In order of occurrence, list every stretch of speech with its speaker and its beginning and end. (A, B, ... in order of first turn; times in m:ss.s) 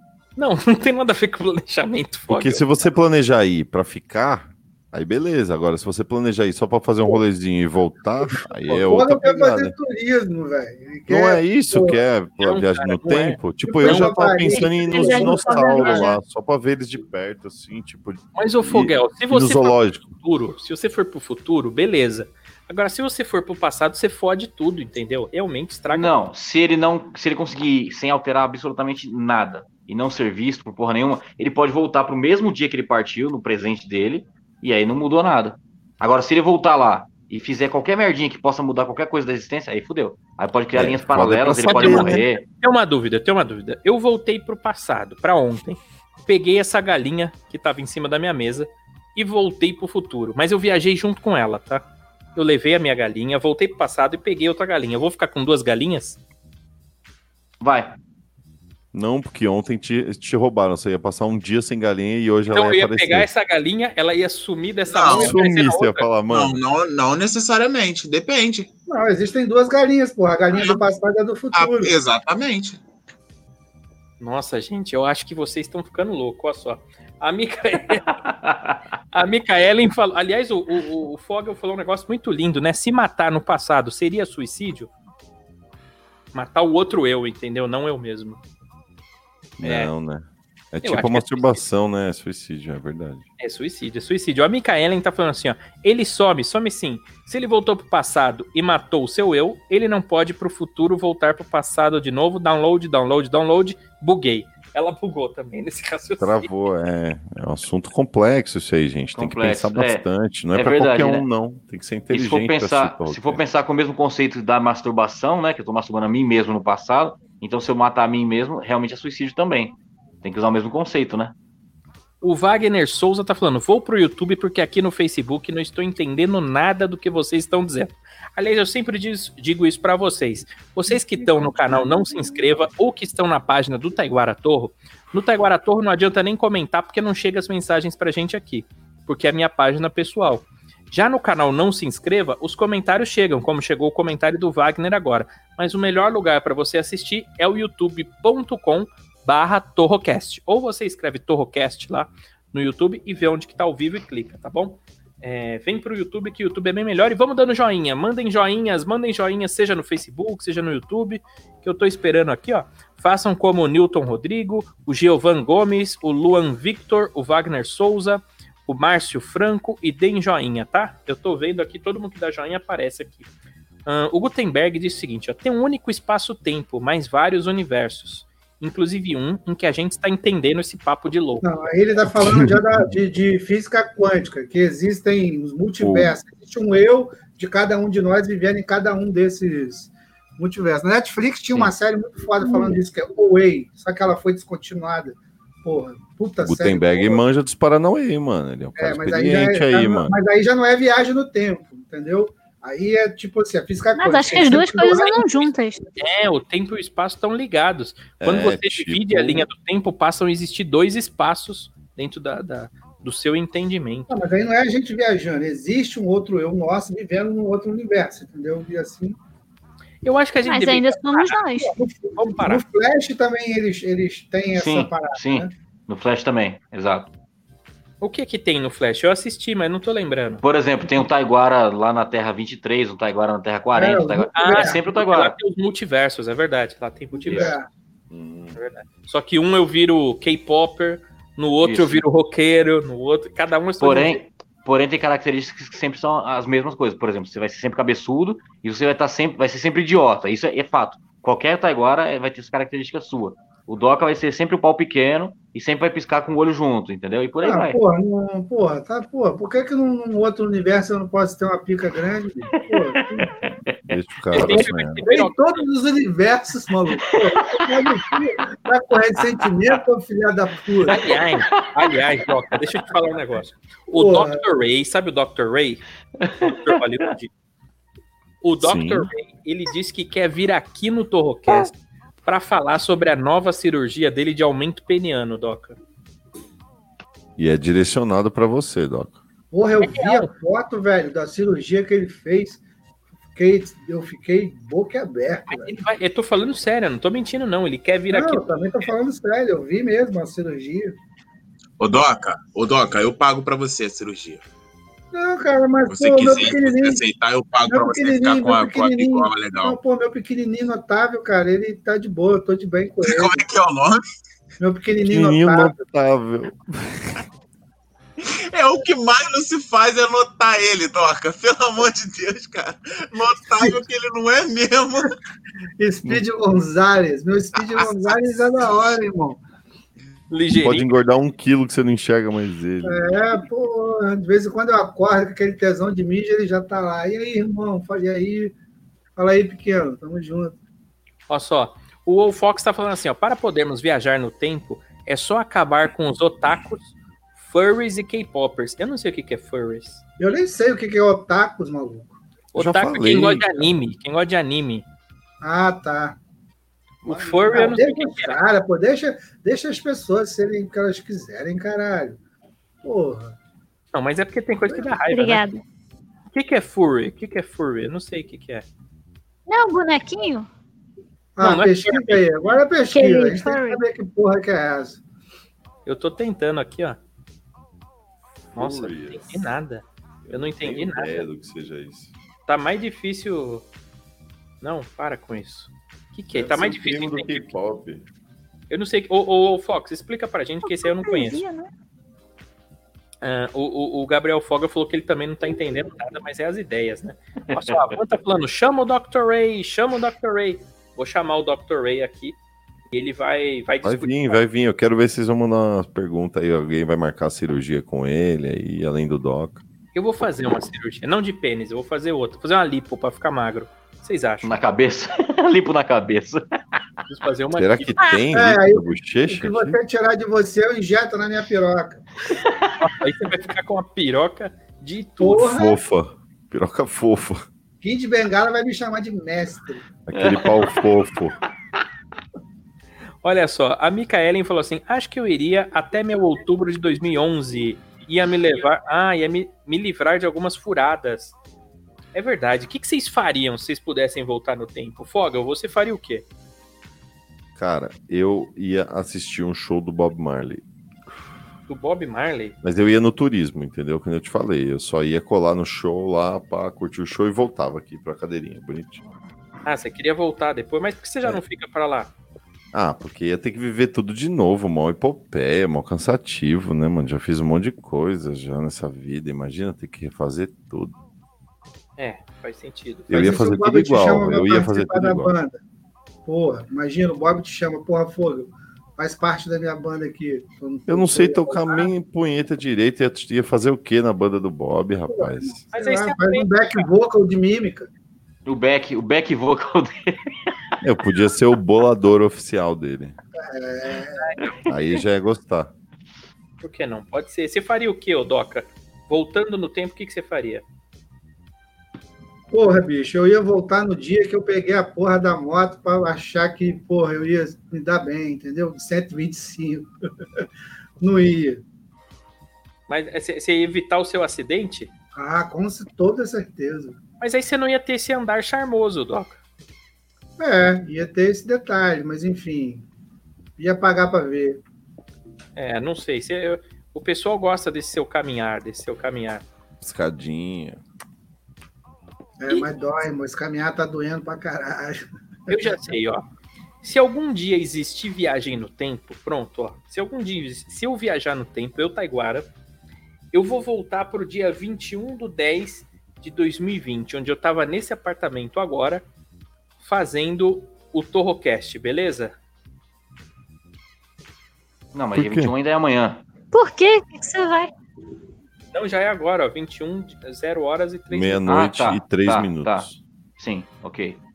0:00.4-0:02.9 A
0:02.3-0:09.7 B
0:08.8-0:12.0 C
0:11.1-0:20.1 B
0:12.4-0:14.1 A
0:13.1-0:16.1 C
0:14.5-0:16.1 D
0:18.4-0:26.1 A
0:25.9-0:42.4 E
0:40.7-0:42.2 B
0:41.7-0:56.2 A
0:57.6-0:57.9 E
0:58.9-1:03.3 B
1:02.5-1:06.1 A
1:04.9-1:05.4 F
1:05.1-1:06.6 B
1:06.3-1:08.7 F
1:08.9-1:11.9 C
1:10.5-1:10.8 F
1:11.5-1:12.8 F
1:14.2-1:18.1 A
1:18.1-1:18.8 E
1:19.1-1:24.9 A
1:26.3-1:28.4 A
1:29.6-1:33.2 B
1:29.6-1:29.9 A
1:30.8-1:31.6 A
1:33.4-1:46.5 A
1:46.2-1:53.4 B
1:49.1-1:51.3 E
1:52.1-2:01.3 E
2:02.2-2:53.3 A
2:11.2-2:12.4 D
2:53.8-3:01.4 A
3:01.4-3:17.2 C
3:02.1-3:02.9 B
3:05.8-3:06.2 B
3:12.4-3:12.8 D
3:16.4-3:20.2 B
3:18.8-3:25.5 C
3:23.9-3:25.9 D
3:26.0-3:34.1 A
3:28.2-3:29.5 B
3:34.1-3:39.2 C
3:40.0-3:42.6 A
3:40.4-3:41.8 D
3:41.7-3:45.5 C
3:44.5-3:47.1 E
3:48.0-3:50.4 A
3:50.4-3:55.4 E
3:53.7-3:54.8 C
3:54.3-3:57.6 A
3:57.1-3:57.7 C
3:58.1-3:58.6 B
3:58.6-4:04.2 A
4:01.6-4:02.0 E
4:03.8-4:17.8 E
4:17.4-4:23.3 C
4:22.7-4:24.0 E
4:23.9-4:25.0 B
4:24.3-4:25.6 A
4:24.4-4:31.0 C
4:27.5-4:27.8 E
4:30.9-4:31.7 E
4:30.9-4:35.8 A
4:32.3-4:32.9 E
4:33.9-4:34.4 C
4:36.2-4:36.7 E
4:36.4-4:37.3 A
4:38.4-4:41.7 A
4:38.6-4:39.1 B
4:42.2-4:45.8 A
4:47.4-4:49.2 B
4:49.5-4:52.6 C
4:49.8-4:50.3 A
4:53.3-4:55.7 C
4:55.5-4:58.8 A
4:58.1-5:01.0 C
5:01.8-5:04.4 F
5:05.1-5:07.0 C
5:05.9-5:09.8 F
5:07.7-5:13.5 C
5:13.0-5:14.0 F
5:14.6-5:15.7 C
5:15.0-5:17.2 B
5:18.2-5:25.1 F
5:25.8-5:29.4 C
5:27.8-5:28.1 F
5:30.3-5:30.9 A
5:30.6-5:33.1 B
5:32.8-5:38.5 C
5:39.2-5:40.5 C
5:41.3-5:50.0 A
5:50.2-5:52.2 C
5:52.5-5:54.8 A
5:52.5-5:53.7 B
5:55.4-5:56.2 C
5:57.0-5:58.4 A
5:57.0-6:02.2 C
6:02.8-6:03.4 C
6:03.9-6:05.4 A
6:05.1-6:05.6 D
6:06.3-6:08.6 A
6:09.5-6:10.5 D
6:11.4-6:15.0 C
6:11.4-6:12.5 A
6:12.9-6:13.8 D
6:15.8-6:17.0 A
6:18.5-6:19.5 B
6:18.5-6:21.2 A
6:20.2-6:22.1 B
6:22.5-6:23.6 A
6:24.6-6:27.5 A
6:26.3-6:28.0 B
6:28.7-6:31.4 A
6:30.6-6:31.7 D
6:33.2-6:42.4 A
6:37.5-6:37.9 E
6:42.9-6:44.4 A
6:43.8-6:49.6 B
6:49.9-6:54.6 A
6:54.4-6:56.4 E
6:57.1-6:58.0 A
6:57.6-6:59.8 B
6:58.3-7:02.1 C
7:02.4-7:02.7 E
7:02.8-7:05.6 A
7:05.2-7:05.8 C
7:05.4-7:07.5 B
7:07.8-7:09.8 C
7:10.0-7:11.4 B
7:10.2-7:10.8 E
7:13.2-7:21.4 A
7:22.1-7:26.2 A
7:27.6-7:31.2 B
7:31.7-7:32.6 A
7:32.6-7:39.0 B
7:39.6-7:42.1 A
7:42.7-7:51.0 B
7:52.0-7:53.1 A
7:53.1-7:55.3 B
7:53.1-7:55.6 C
7:56.2-8:01.9 C
8:00.9-8:05.6 B
8:05.1-8:07.9 C
8:05.7-8:06.9 A
8:08.4-8:10.5 E
8:10.8-8:13.2 B
8:13.4-8:14.3 C
8:14.2-8:14.6 A
8:14.6-8:15.7 B
8:16.6-8:20.6 A
8:22.5-8:30.4 C
8:31.0-8:31.6 C
8:32.9-8:34.9 A
8:35.1-8:37.0 C
8:37.2-8:39.4 A
8:40.4-8:42.8 C
8:43.6-8:44.6 C
8:45.6-8:49.4 A
8:49.8-8:50.8 B
8:52.4-8:55.0 C
8:55.5-8:56.2 A
8:56.8-9:02.5 A
9:03.3-9:09.0 A
9:09.8-9:12.3 A
9:14.9-9:16.2 E
9:15.1-9:15.5 B
9:16.5-9:17.7 D
9:18.7-9:21.4 A
9:21.1-9:23.0 B
9:21.5-9:22.9 E
9:23.4-9:24.2 E